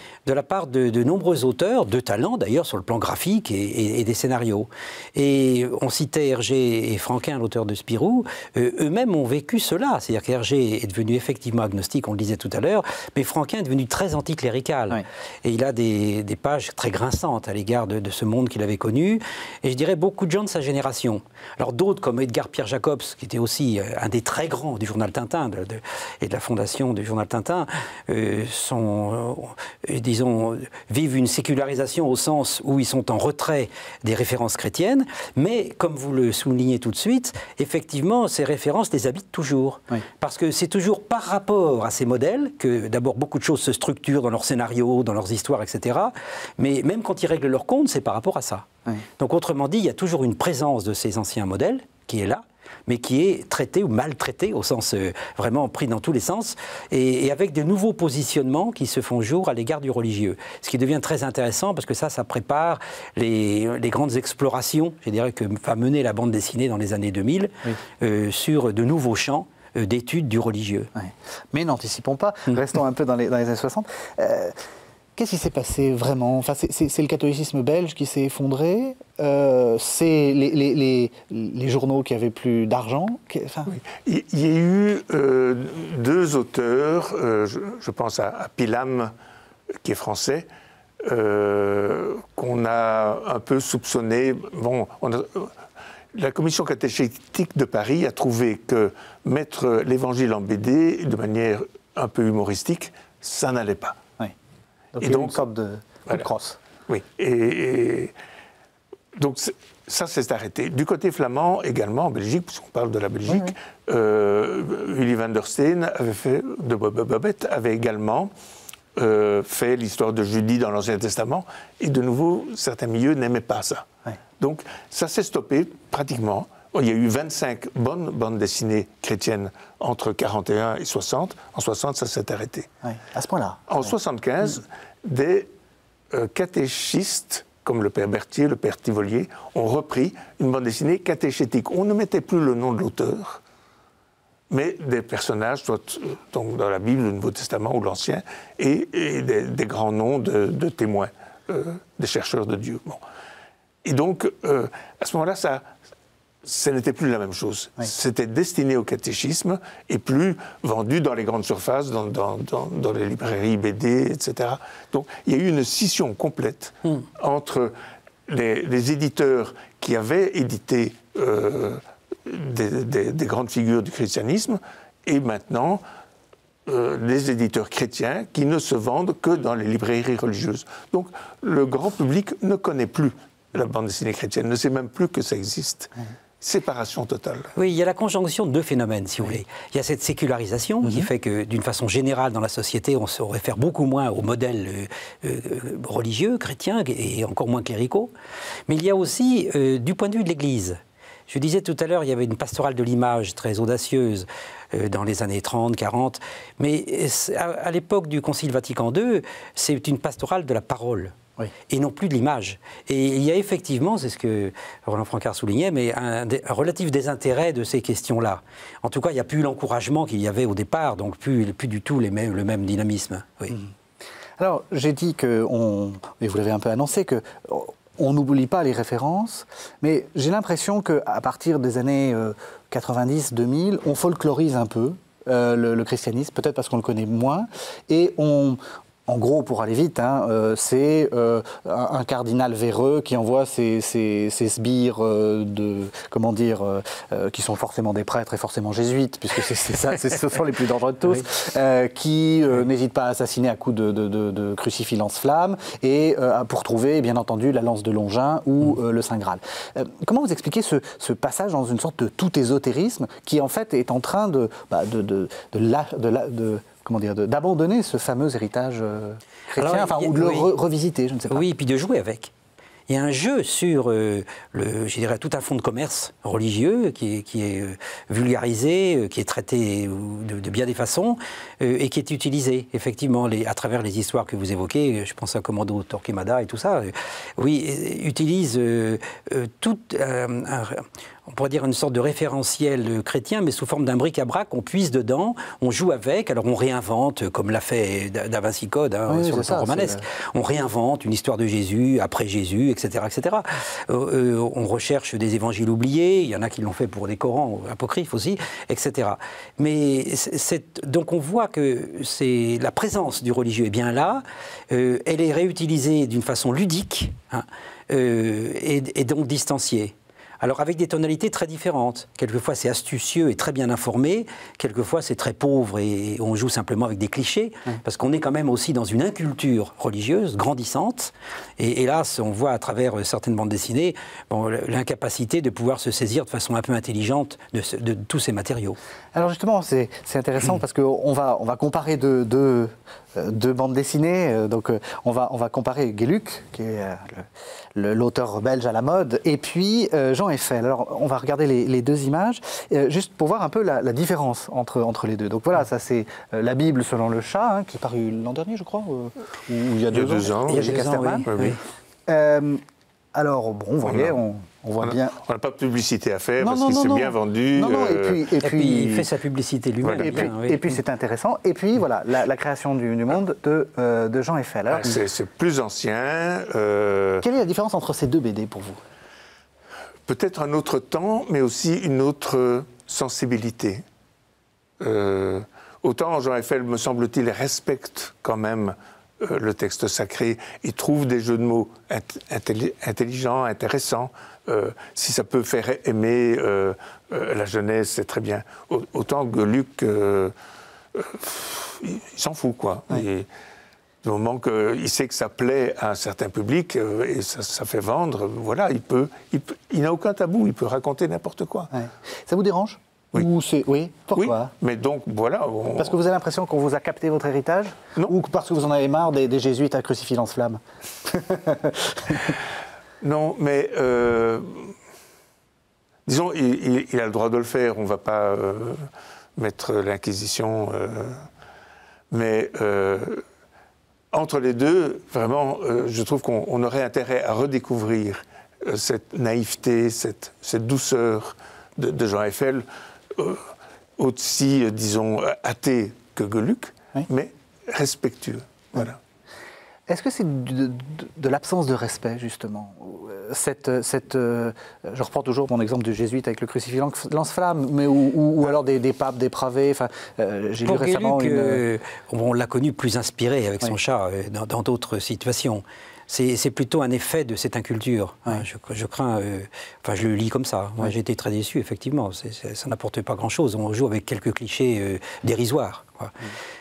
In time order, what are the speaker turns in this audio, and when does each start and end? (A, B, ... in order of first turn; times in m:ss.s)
0:00.2-0:48.7 A
0:49.2-1:10.9 A
1:10.9-1:14.5 B
1:15.2-1:23.7 B
1:23.7-1:29.1 C
1:29.8-1:30.5 C
1:31.0-1:35.5 C
1:36.1-1:44.0 C
1:44.9-1:46.6 B
1:45.0-1:45.4 C
1:46.9-1:48.1 C
1:49.1-1:58.3 C
1:53.3-1:53.5 B
1:58.9-2:03.8 C
2:04.4-2:12.7 C
2:12.8-2:13.9 B
2:13.7-2:15.5 C
2:16.1-2:23.4 C
2:24.5-2:33.0 C
2:33.8-2:35.7 C
2:36.4-2:47.7 C
2:48.3-2:55.8 C
2:56.6-3:07.5 C
3:07.5-3:18.1 A
3:18.7-3:31.1 A
3:31.7-3:43.6 A
3:44.4-4:31.4 B
4:29.5-4:30.5 A
4:31.3-4:32.3 A
4:32.9-5:38.8 A
4:59.1-5:00.0 B
5:39.1-6:01.3 B
5:59.9-6:00.7 C
6:00.5-6:01.6 A
6:01.3-6:01.6 C
6:02.1-6:02.6 B
6:03.1-6:05.2 B
6:03.8-6:04.2 C
6:04.8-6:08.2 C
6:06.4-6:09.1 B
6:08.4-6:10.6 A
6:09.8-6:10.3 C
6:10.0-6:15.0 B
6:14.7-6:17.2 C
6:17.2-6:18.8 B
6:20.1-6:23.8 C
6:24.8-6:40.3 C
6:40.9-6:43.3 C
6:44.0-6:51.7 C
6:51.7-6:54.5 B
6:54.2-6:56.0 C
6:55.8-7:02.4 B
7:03.0-7:04.7 C
7:06.0-7:08.8 C
7:09.4-7:11.2 C
7:12.1-7:13.2 C
7:14.1-7:23.4 C
7:24.0-7:29.0 C
7:29.9-7:41.6 B
7:40.6-7:56.1 A